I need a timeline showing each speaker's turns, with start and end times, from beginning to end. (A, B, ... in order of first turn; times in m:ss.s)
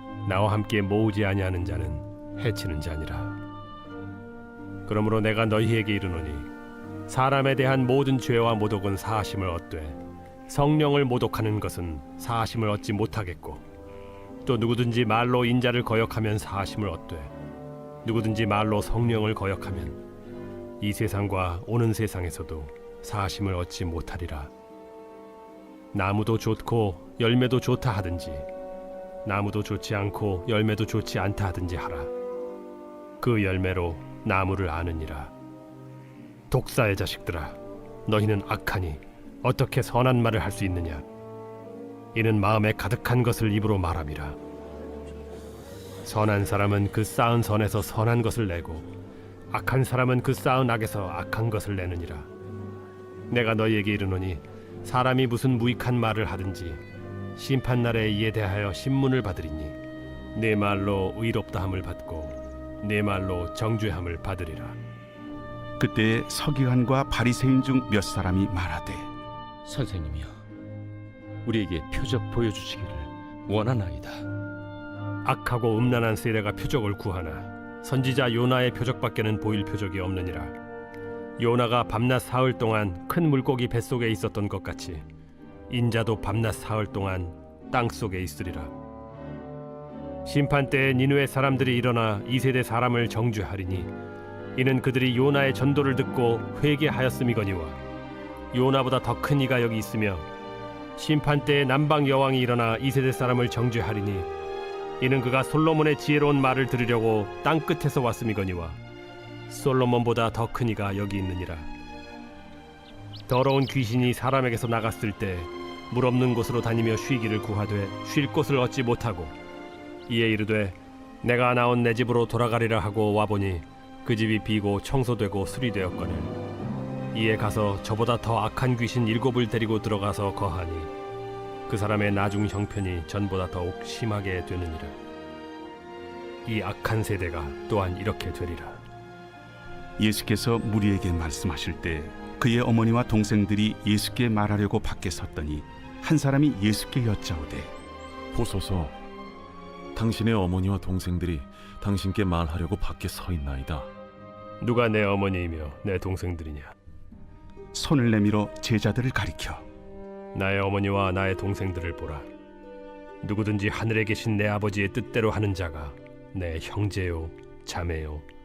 0:00.2-0:03.4 A
0:04.8-0:06.5 A
0:07.1-0:13.6 A
0:14.4-0:17.3 A
0:18.0-0:20.0 A
0:20.8-0:24.5 A
0:25.9-0:28.5 A
0:29.2-0:32.1 A
0:33.2-0:35.3 A
0:36.5-0:41.0 A
0:42.1-0:44.4 A
0:46.0-0:48.9 A
0:49.5-0:52.3 A
0:53.3-0:56.8 A
0:57.4-0:59.8 A
1:00.3-1:04.8 A
1:05.8-1:09.1 B
1:09.7-1:10.1 C
1:11.4-1:14.1 C
1:15.2-1:20.6 A
1:21.4-1:25.0 A
1:25.7-1:28.7 A
1:30.2-1:33.9 A
1:34.6-1:37.8 A
1:38.5-1:40.2 A
1:41.0-1:44.3 A
1:45.0-1:48.8 A
1:49.5-1:51.7 A
1:53.3-1:59.3 A
2:00.1-2:06.3 A
2:07.1-2:10.9 A
2:11.7-2:15.0 A
2:16.4-2:18.8 A
2:20.0-2:27.7 B
2:28.3-2:28.9 D
2:29.9-2:33.9 D
2:34.6-2:36.7 A
2:37.7-2:39.6 B
2:40.3-2:42.3 A
2:43.2-2:48.2 A